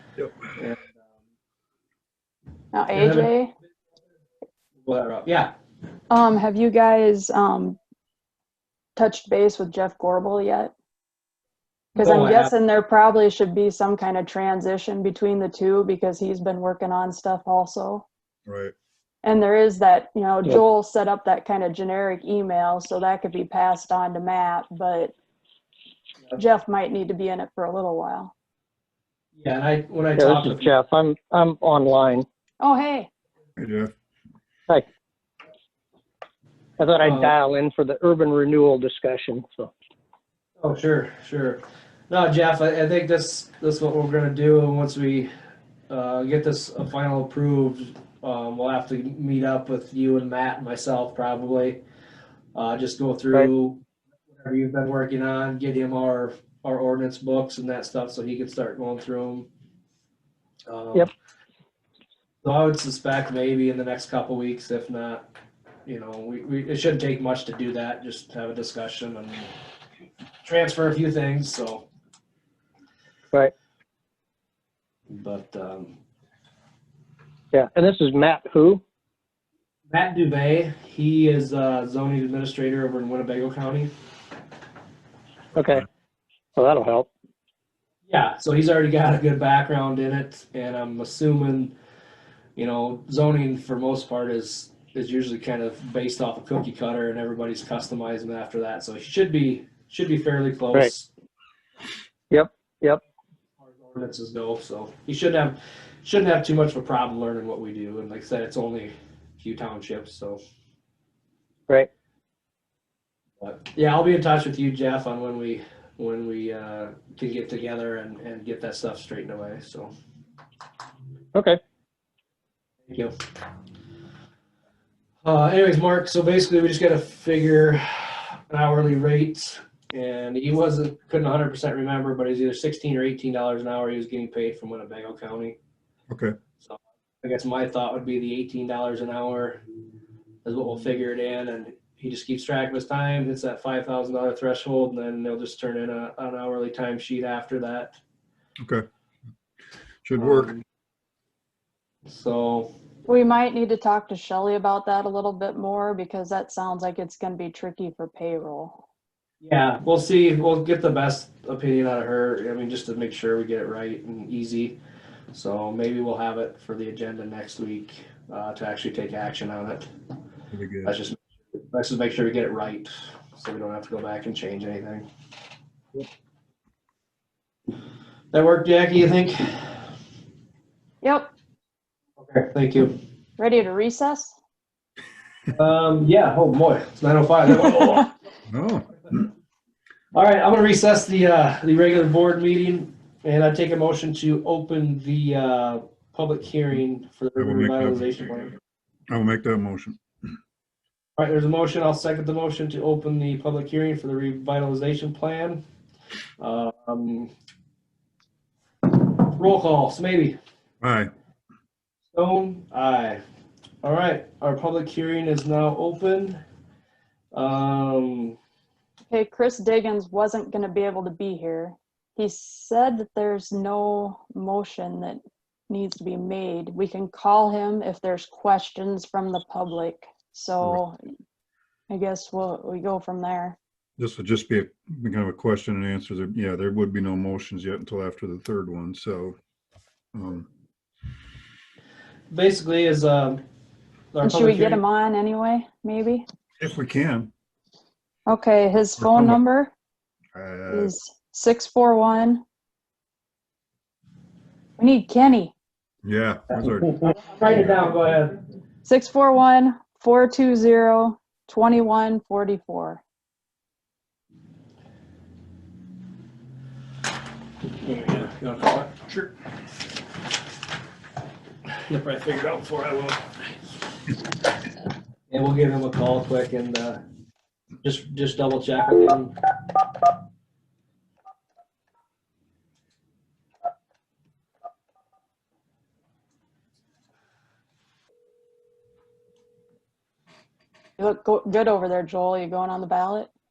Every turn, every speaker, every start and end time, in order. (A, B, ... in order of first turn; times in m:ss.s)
0:00.6-0:00.9 A
0:02.7-0:03.5 B
0:02.9-0:03.3 A
0:04.8-0:05.5 A
0:06.1-0:07.8 B
0:09.0-0:10.7 B
0:12.0-0:18.0 B
0:12.0-0:12.5 A
0:18.5-0:18.7 C
0:19.2-0:25.1 B
0:26.4-0:28.3 B
0:29.4-0:30.7 A
0:30.2-0:32.2 D
0:32.6-0:33.1 B
0:33.6-0:33.9 C
0:36.8-0:39.7 D
0:37.0-0:37.3 A
0:40.6-0:45.3 A
0:45.9-0:51.8 A
0:52.5-0:53.8 A
0:54.4-0:59.5 A
1:00.7-1:01.1 A
1:02.4-1:05.3 A
1:05.8-1:09.5 A
1:10.4-1:11.9 A
1:15.1-1:15.9 A
1:17.5-1:18.8 D
1:19.9-1:23.9 A
1:25.5-1:25.8 D
1:26.6-1:27.1 D
1:28.1-1:31.7 A
1:32.6-1:41.1 A
1:42.3-1:43.0 D
1:43.8-1:50.4 A
1:53.4-1:59.9 A
2:01.3-2:01.6 D
2:02.9-2:03.1 A
2:05.2-2:15.6 A
2:16.1-2:16.4 C
2:16.6-2:19.6 A
2:20.4-2:28.0 A
2:28.6-2:28.8 C
2:30.0-2:30.5 C
2:30.2-2:30.6 A
2:32.0-2:32.7 A
2:33.1-2:38.8 B
2:39.4-2:44.8 A
2:45.3-2:49.9 A
2:50.5-2:51.0 C
2:50.8-2:55.1 A
2:58.3-2:59.8 A
3:01.0-3:01.3 B
3:02.2-3:02.9 A
3:03.4-3:04.4 B
3:05.5-3:08.1 A
3:08.5-3:09.3 C
3:10.1-3:18.5 A
3:17.4-3:18.2 C
3:19.1-3:20.0 C
3:21.2-3:25.6 A
3:26.4-3:27.3 A
3:29.2-3:30.4 A
3:30.8-3:31.1 C
3:32.1-3:33.2 A
3:33.8-3:36.4 A
3:37.3-3:38.4 A
3:39.1-3:51.0 B
3:51.9-3:53.6 B
3:54.0-3:59.4 C
4:00.1-4:00.5 C
4:02.3-4:03.4 A
4:04.1-4:04.8 A
4:04.2-4:06.2 B
4:06.6-4:07.3 C
4:08.2-4:09.7 B
4:09.0-4:09.4 C
4:10.3-4:10.9 C
4:10.7-4:12.4 B
4:14.8-4:15.5 B
4:16.0-4:17.9 C
4:17.1-4:18.4 A
4:18.8-4:23.0 B
4:27.8-4:29.3 A
4:31.9-4:33.3 A
4:35.3-4:37.0 A
4:37.8-4:39.3 A
4:51.0-4:53.3 B